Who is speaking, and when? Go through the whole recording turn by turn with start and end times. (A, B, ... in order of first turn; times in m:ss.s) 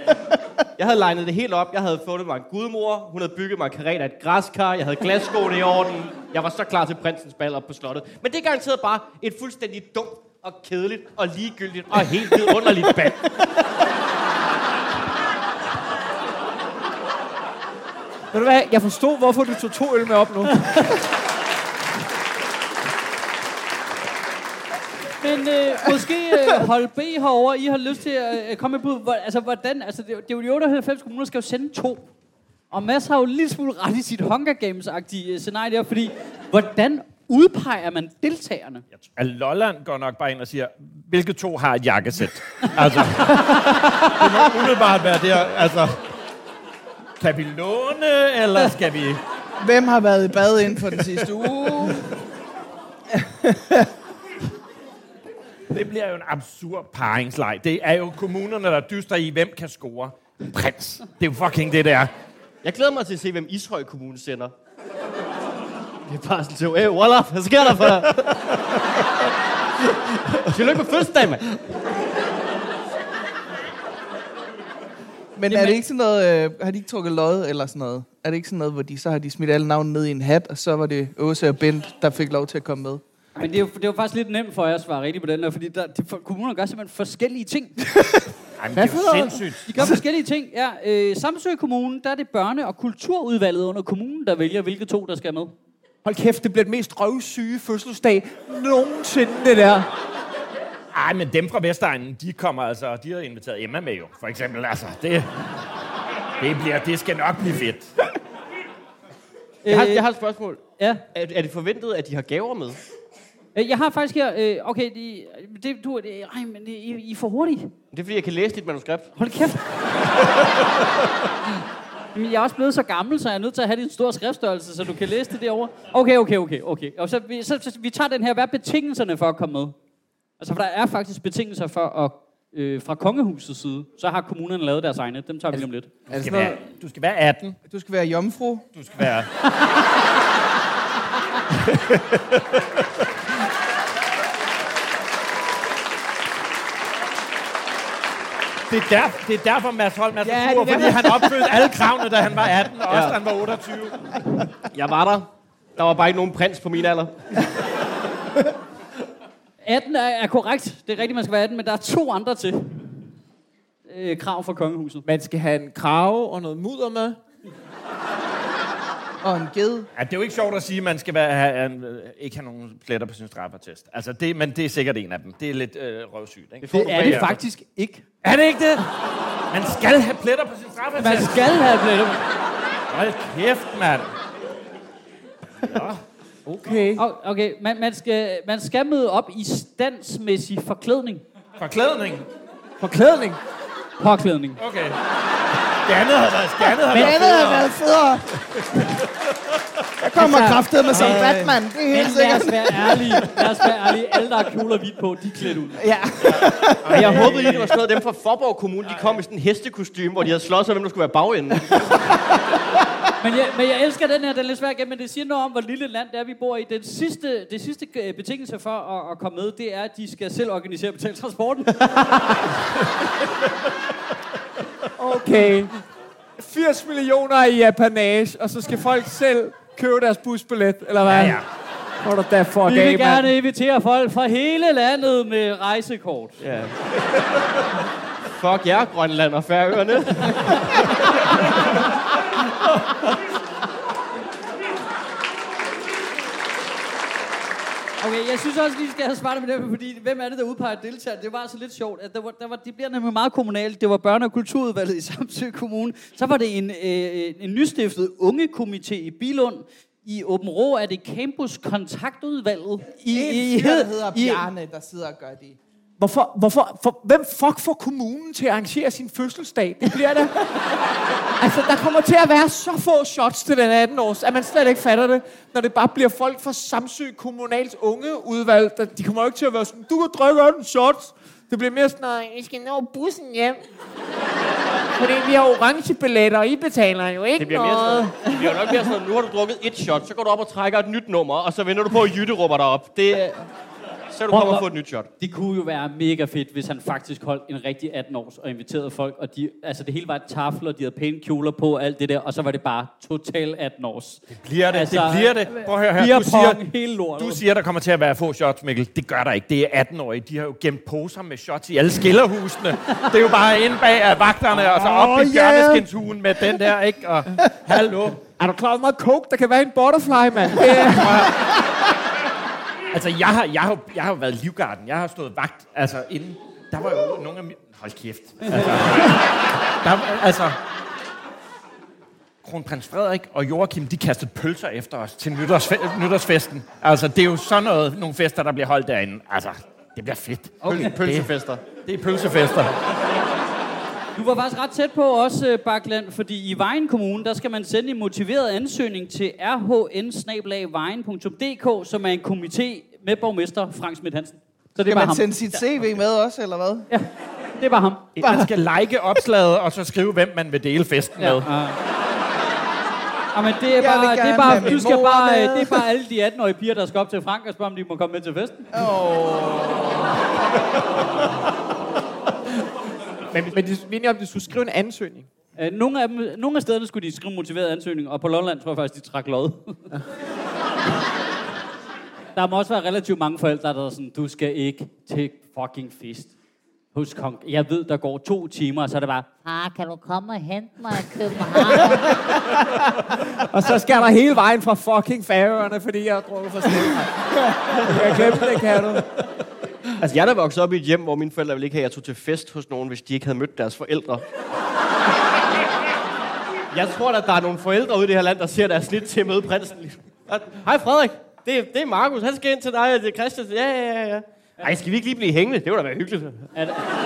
0:00.8-0:13.2 A
0:12.2-0:13.5 B
0:18.3-0:20.8 B
0:25.2-0:32.1 C
0:32.7-0:38.8 C
0:39.0-0:46.0 D
0:43.6-0:44.1 C
0:47.2-0:49.2 D
0:49.6-0:52.1 E
0:53.1-0:53.9 E
0:55.7-1:02.1 D
1:02.6-1:04.5 A
1:06.1-1:08.6 A
1:10.4-1:11.6 A
1:15.4-1:23.0 E
1:15.5-1:15.8 C
1:23.4-1:27.9 C
1:28.0-1:28.2 E
1:28.6-1:30.0 D
1:28.7-1:29.4 B
1:29.6-1:35.5 C
1:36.0-1:39.9 B
1:40.9-1:45.3 D
1:46.4-1:47.9 D
1:49.6-1:50.0 C
1:49.6-1:50.6 A
1:51.1-1:52.8 A
1:53.5-1:57.7 C
1:57.9-1:59.1 A
1:59.2-1:59.9 C
2:02.1-2:09.7 C
2:10.4-2:15.9 C
2:15.5-2:16.6 B
2:16.1-2:17.6 D
2:17.7-2:18.6 E
2:18.7-2:19.3 D
2:21.7-2:22.8 D
2:28.7-2:34.2 D
2:30.2-2:31.7 E
2:32.9-2:33.2 A
2:34.7-2:37.5 A
2:39.6-2:42.9 C
2:43.9-2:45.0 C
2:45.0-2:47.2 B
2:49.2-2:49.9 E
2:50.0-2:57.4 D
2:56.6-2:58.0 C
2:58.2-2:58.9 D
2:59.5-3:01.6 D
3:01.0-3:02.2 C
3:02.9-3:04.1 D
3:05.6-3:06.0 D
3:06.4-3:07.0 B
3:07.0-3:11.2 C
3:11.6-3:12.3 D
3:12.8-3:13.4 B
3:14.0-3:14.6 C
3:14.6-3:15.0 D
3:15.8-3:17.7 D
3:16.9-3:18.6 E
3:20.0-3:23.2 E
3:20.2-3:21.6 B
3:20.9-3:21.2 D
3:21.9-3:25.8 C
3:25.8-3:27.1 E
3:26.8-3:27.8 D
3:26.9-3:32.1 A
3:33.2-3:41.9 C
3:42.1-3:42.4 B
3:45.0-3:45.7 B
3:46.4-3:51.4 B
3:51.0-3:51.4 D
3:52.0-3:53.3 B
3:52.6-3:56.4 C
3:56.4-3:56.8 A
3:58.4-4:00.8 A
4:08.0-4:24.5 C
4:23.1-4:25.6 E
4:26.0-4:30.5 B
4:31.4-4:43.6 B
4:45.0-4:48.2 B
4:47.4-4:53.4 A
4:54.1-4:55.1 A
4:54.3-4:54.7 C
4:55.2-5:07.4 C
5:04.3-5:06.6 D
5:07.2-5:18.2 D
5:14.6-5:15.8 B
5:18.4-5:21.4 B
5:20.6-5:21.5 D
5:22.9-5:30.6 D
5:32.4-5:41.3 D
5:40.6-5:41.6 A
5:41.8-5:42.7 D
5:44.2-5:55.6 C
5:54.8-5:56.9 E
5:56.9-5:58.1 C
5:58.2-6:01.5 D
5:58.2-5:58.5 E
6:01.2-6:01.8 C
6:03.3-6:08.7 C
6:03.8-6:05.8 E
6:08.7-6:10.2 E
6:13.3-6:15.3 B
6:15.6-6:19.9 C
6:22.3-6:26.3 C
6:26.9-6:29.3 C
6:29.4-6:32.2 F
6:33.4-6:39.1 B
6:40.0-6:44.2 A
6:46.7-6:56.5 A
6:56.5-6:56.9 C